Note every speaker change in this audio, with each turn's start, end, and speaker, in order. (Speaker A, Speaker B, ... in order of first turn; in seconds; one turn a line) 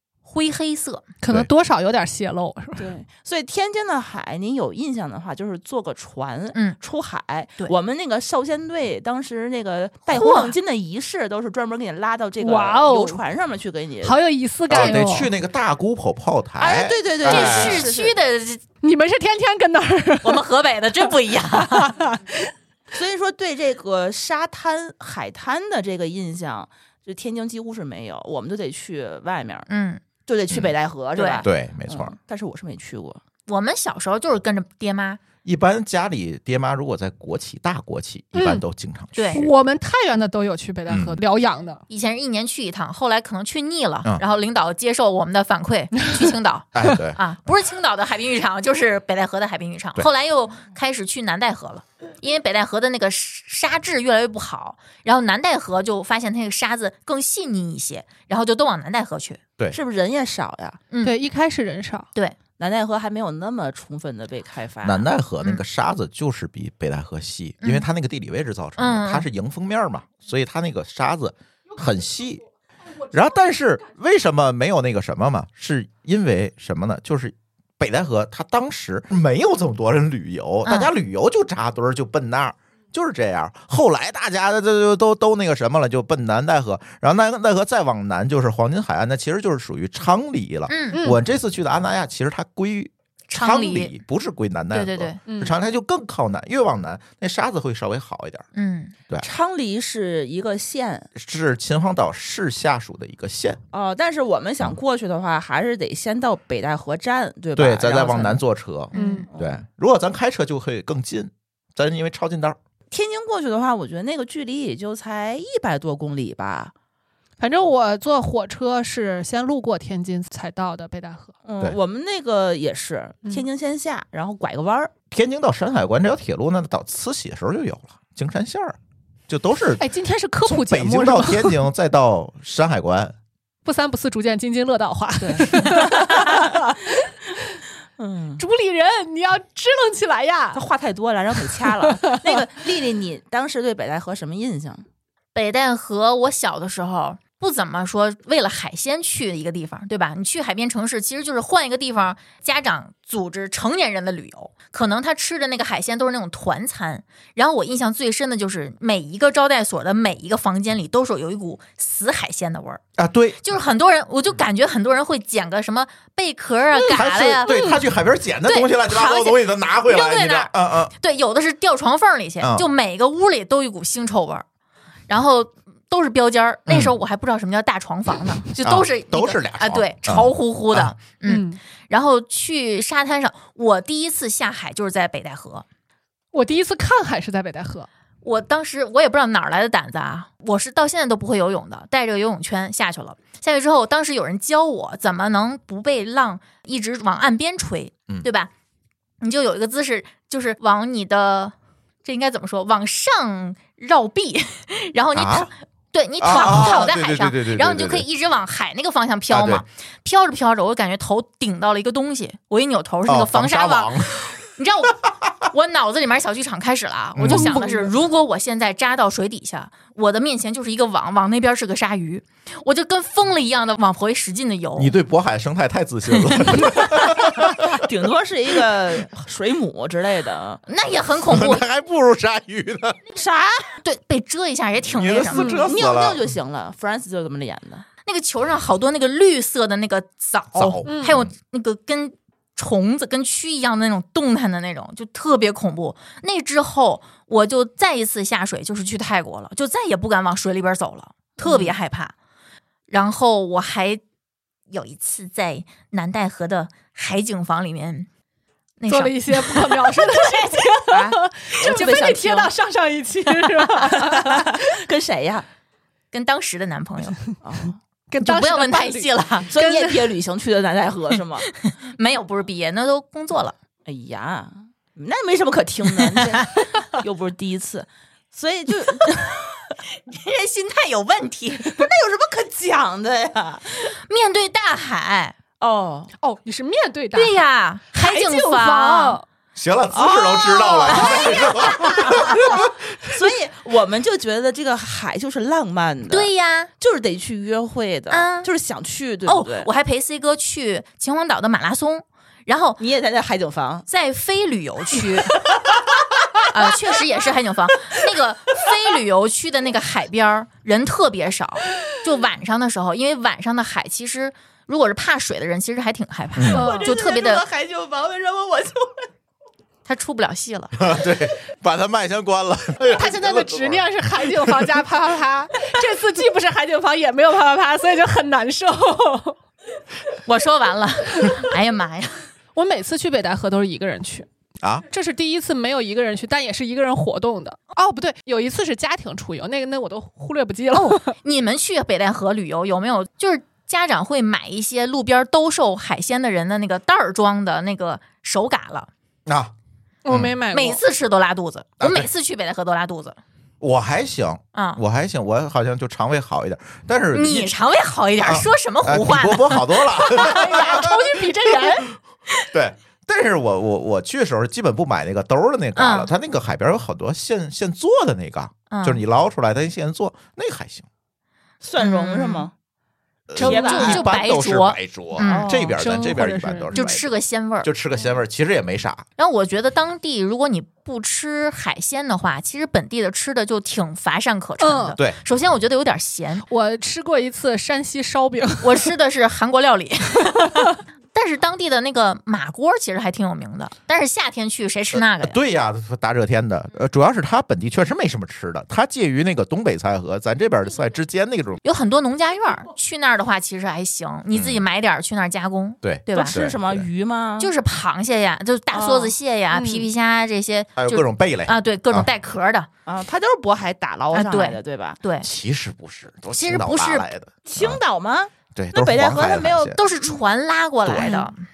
Speaker A: 0.2-1.0
Speaker B: 1.2-2.9
Speaker C: 2.8-14.2
Speaker A: 10.1-10.4
Speaker B: 10.2-10.4
Speaker B: 12.4-13.2
Speaker B: 14.0-15.3
Speaker D: 14.7-17.8
Speaker C: 16.6-18.1
Speaker A: 17.3-18.6
Speaker B: 18.8-20.4
Speaker A: 20.2-22.0
Speaker B: 21.0-22.5
Speaker C: 22.9-29.7
Speaker A: 29.7-30.0
Speaker C: 30.3-33.2
Speaker A: 31.1-31.4
Speaker D: 31.4-32.1
Speaker A: 33.5-35.2
Speaker D: 35.4-39.2
Speaker B: 38.3-38.6
Speaker A: 39.1-39.5
Speaker B: 39.3-41.8
Speaker D: 40.9-41.2
Speaker A: 41.9-59.4
Speaker D: 46.7-47.2
Speaker C: 59.7-60.8
Speaker B: 61.0-62.1
Speaker C: 62.6-65.0
Speaker D: 64.8-72.4
Speaker A: 68.8-69.2
Speaker D: 73.0-98.5
Speaker A: 80.6-80.9
Speaker A: 90.7-91.0
Speaker B: 90.9-91.2
Speaker A: 93.3-93.9
Speaker A: 94.7-95.2
Speaker B: 95.3-95.5
Speaker A: 98.5-98.9
Speaker C: 99.2-101.1
Speaker D: 101.2-103.6
Speaker C: 103.7-108.4
Speaker D: 107.5-112.6
Speaker A: 108.9-109.3
Speaker B: 108.9-109.3
Speaker C: 109.3-109.6
Speaker C: 112.9-116.7
Speaker B: 117.4-121.3
Speaker C: 121.4-124.9
Speaker D: 125.1-128.8
Speaker D: 129.3-129.9
Speaker B: 129.8-131.6
Speaker D: 130.4-133.2
Speaker B: 133.6-137.1
Speaker C: 135.2-136.8
Speaker C: 138.0-138.4
Speaker B: 138.4-140.6
Speaker C: 140.5-144.9
Speaker B: 141.8-142.3
Speaker A: 145.3-162.8
Speaker D: 163.0-163.4
Speaker A: 163.4-167.7
Speaker D: 166.9-170.9
Speaker B: 167.4-167.8
Speaker A: 168.5-174.4
Speaker D: 172.4-172.7
Speaker A: 175.1-185.6
Speaker D: 176.7-176.9
Speaker D: 178.5-180.9
Speaker B: 181.2-181.6
Speaker B: 186.3-187.9
Speaker A: 188.2-198.5
Speaker A: 199.2-224.9
Speaker D: 205.1-205.5
Speaker D: 206.2-208.0
Speaker D: 209.3-209.6
Speaker D: 213.1-214.3
Speaker D: 217.2-217.6
Speaker B: 217.3-217.9
Speaker D: 224.8-227.8
Speaker A: 226.4-226.8
Speaker C: 227.4-230.6
Speaker A: 230.7-231.6
Speaker D: 231.3-233.0
Speaker C: 233.1-233.7
Speaker A: 233.8-235.7
Speaker D: 234.9-236.3
Speaker B: 235.3-235.6
Speaker C: 235.6-237.8
Speaker A: 238.0-252.1
Speaker D: 240.5-241.3
Speaker B: 240.8-241.2
Speaker C: 251.4-251.8
Speaker A: 252.9-254.0
Speaker A: 254.7-258.1
Speaker A: 258.8-262.5
Speaker B: 258.9-264.6
Speaker C: 261.6-262.2
Speaker C: 263.8-265.4
Speaker A: 266.1-267.2
Speaker C: 267.4-267.8
Speaker B: 268.1-270.1
Speaker A: 268.2-269.5
Speaker C: 269.5-271.5
Speaker A: 271.5-273.6
Speaker C: 273.8-279.8
Speaker A: 276.2-276.4
Speaker A: 280.1-281.9
Speaker C: 281.6-283.9
Speaker A: 284.1-285.3
Speaker C: 285.6-286.1
Speaker B: 286.2-287.4
Speaker A: 287.1-289.2
Speaker B: 288.0-289.2
Speaker D: 289.6-292.7
Speaker C: 289.9-299.7
Speaker A: 290.5-291.9
Speaker A: 296.1-296.7
Speaker A: 298.1-298.5
Speaker A: 299.2-302.8
Speaker C: 302.8-303.9
Speaker A: 303.9-305.4
Speaker A: 306.4-317.4
Speaker D: 316.4-316.6
Speaker C: 316.5-319.0
Speaker B: 316.5-316.9
Speaker A: 319.9-320.7
Speaker D: 320.8-324.8
Speaker B: 322.9-329.4
Speaker A: 330.2-332.2
Speaker B: 332.5-334.3
Speaker B: 334.9-341.1
Speaker A: 340.7-348.9
Speaker D: 349.2-349.5
Speaker B: 350.0-350.8
Speaker D: 350.1-350.4
Speaker A: 350.5-353.2
Speaker D: 351.8-352.1
Speaker D: 353.6-357.5
Speaker A: 354.5-354.8
Speaker A: 357.1-360.3
Speaker D: 358.2-361.0
Speaker B: 360.0-361.9
Speaker D: 362.5-370.9
Speaker A: 365.8-366.1
Speaker A: 368.7-369.0
Speaker C: 371.6-372.5
Speaker A: 371.8-372.5
Speaker D: 373.3-376.9
Speaker A: 373.4-375.6
Speaker C: 373.4-374.1
Speaker C: 375.2-375.8
Speaker B: 375.7-377.0
Speaker A: 376.7-377.7
Speaker D: 377.6-379.0
Speaker A: 379.2-386.4
Speaker B: 384.6-385.0
Speaker B: 386.5-388.9
Speaker A: 388.6-395.4
Speaker D: 394.9-401.6
Speaker A: 401.6-406.4
Speaker D: 404.3-404.6
Speaker D: 405.8-406.9
Speaker C: 406.1-407.5
Speaker A: 407.4-412.7
Speaker C: 408.7-409.1
Speaker B: 409.5-409.9
Speaker D: 410.8-412.1
Speaker C: 412.9-415.0
Speaker A: 414.1-415.3
Speaker D: 415.2-417.8
Speaker A: 416.3-417.1
Speaker C: 417.4-420.2
Speaker D: 418.5-419.8
Speaker A: 419.7-421.4
Speaker D: 420.8-421.2